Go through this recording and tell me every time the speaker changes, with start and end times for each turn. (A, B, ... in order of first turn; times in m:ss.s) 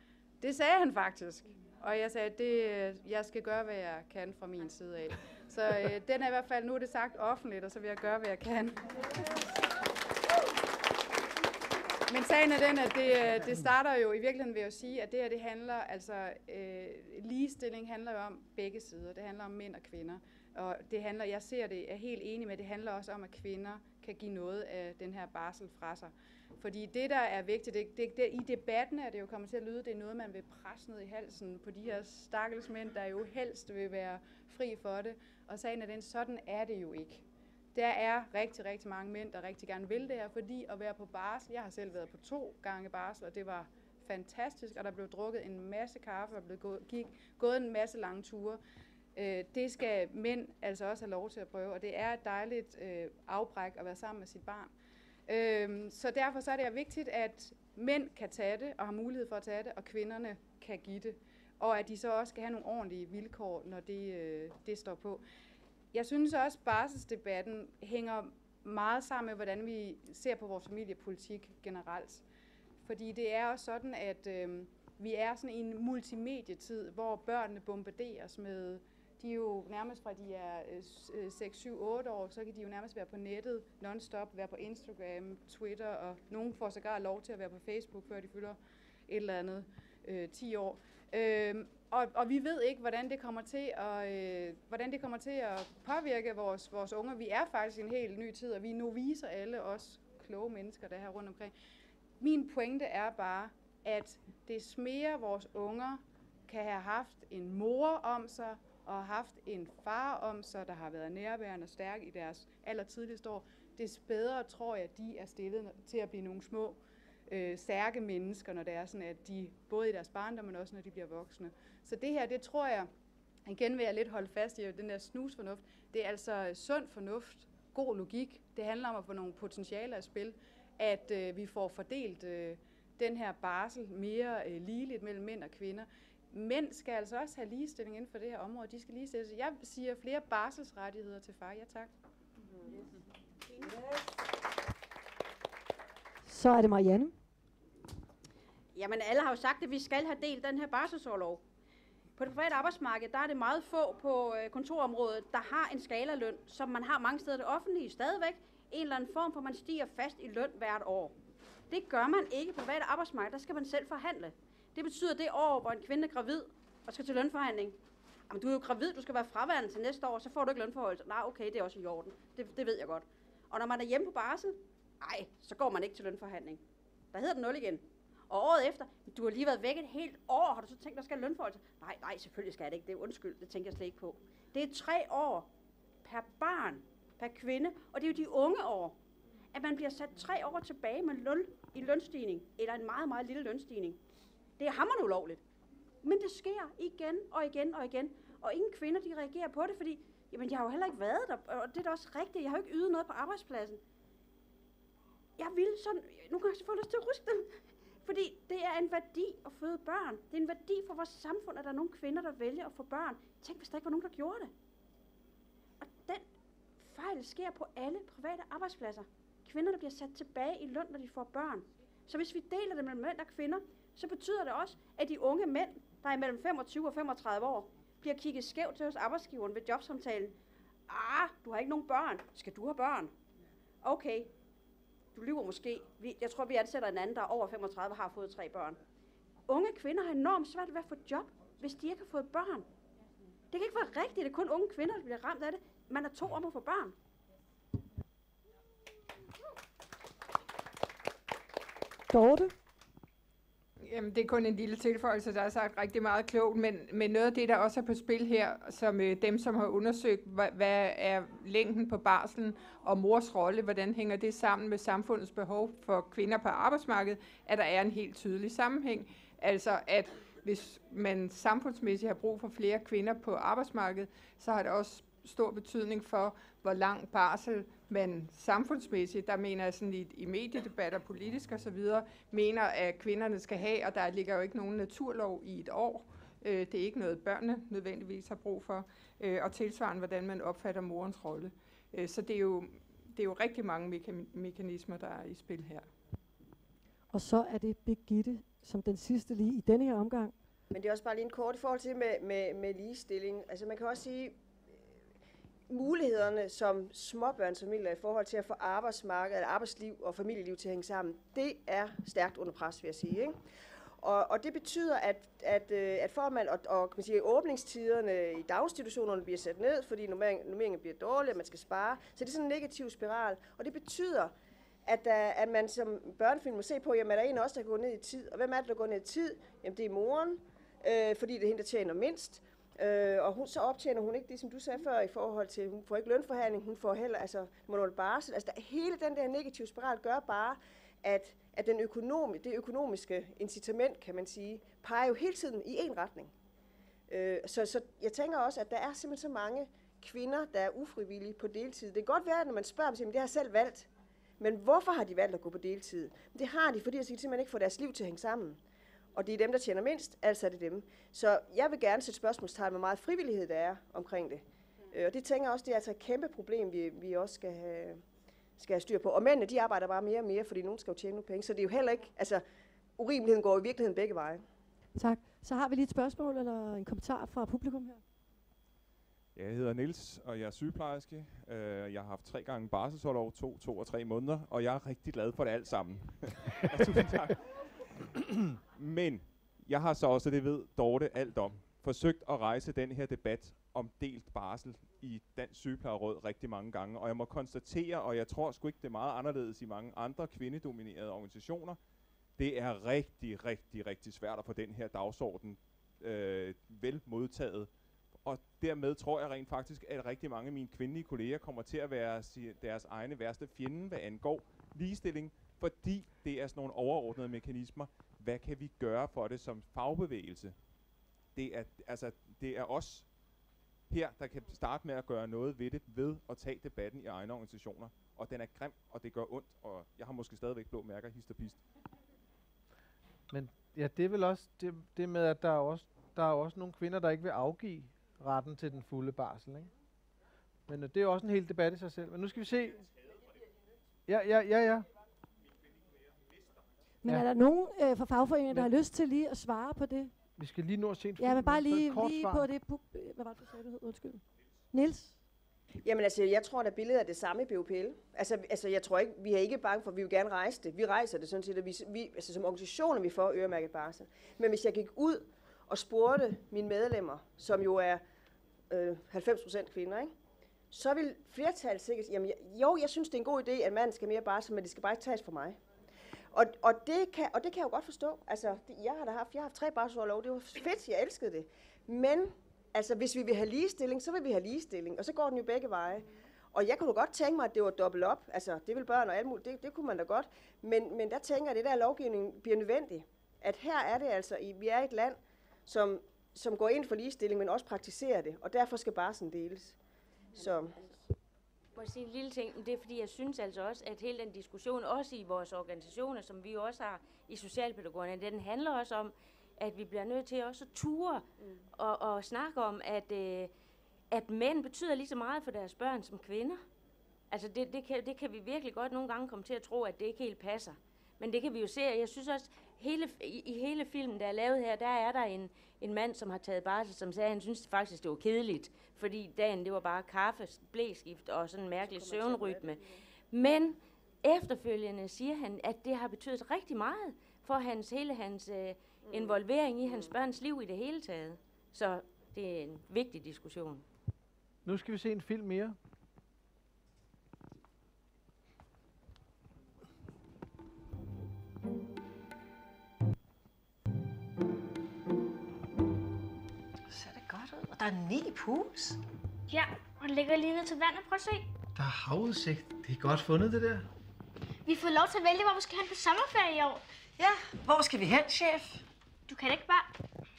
0:00.4-0:09.1 A
0:12.1-0:37.2 A
0:37.7-0:48.6 A
0:49.1-0:54.7 A
0:55.3-1:05.2 A
1:05.9-1:12.2 A
1:12.8-1:41.5 A
1:42.2-2:02.9 A
2:03.4-2:21.9 A
2:26.2-2:27.1 B
2:28.7-2:31.4 C
2:32.2-2:41.1 C
2:41.7-2:47.8 C
2:48.3-2:56.6 C
2:57.1-3:05.5 C
3:06.0-3:09.0 C
3:09.5-3:14.0 C
3:14.6-3:15.4 C
3:16.0-3:23.8 C
3:25.4-3:27.5 C
3:28.0-3:34.5 C
3:35.8-3:36.2 C
3:36.8-3:50.3 C
3:50.9-3:53.1 C
3:53.8-3:54.3 C
3:55.1-3:58.8 C
3:59.5-4:02.7 C
4:03.5-4:06.9 C
4:12.1-4:12.5 B
4:13.8-4:55.9 D
4:57.1-5:00.3 B
5:00.7-5:04.4 E
5:05.7-5:13.4 E
5:14.0-5:24.3 E
5:24.8-5:46.3 E
5:47.1-5:53.9 E
5:54.4-5:58.6 E
5:59.1-6:08.0 E
6:08.6-6:12.4 E
6:13.0-6:14.4 E
6:14.9-6:18.0 B
6:19.3-6:41.8 F
6:42.4-7:00.8 F
7:01.3-7:03.2 F
7:03.9-7:11.6 F
7:13.3-7:19.7 G
7:20.7-7:22.9 G
7:24.1-7:24.9 G
7:27.0-7:30.1 B
7:27.0-7:27.3 G
7:30.4-7:32.5 G
7:31.2-7:35.2 B
7:35.8-7:48.0 E
7:48.7-7:50.1 E
7:50.7-7:55.6 E
7:56.3-8:19.8 E
8:20.4-8:20.8 E
8:21.7-8:33.5 H
8:34.1-8:36.6 H
8:37.3-9:03.8 H
8:51.8-8:53.0 E
8:59.0-9:00.1 E
9:04.6-9:05.8 G
9:16.9-9:19.0 I
9:19.5-9:21.5 J
9:21.7-9:23.9 K
9:24.6-9:26.8 J
9:27.2-9:28.8 I
9:29.3-9:29.9 J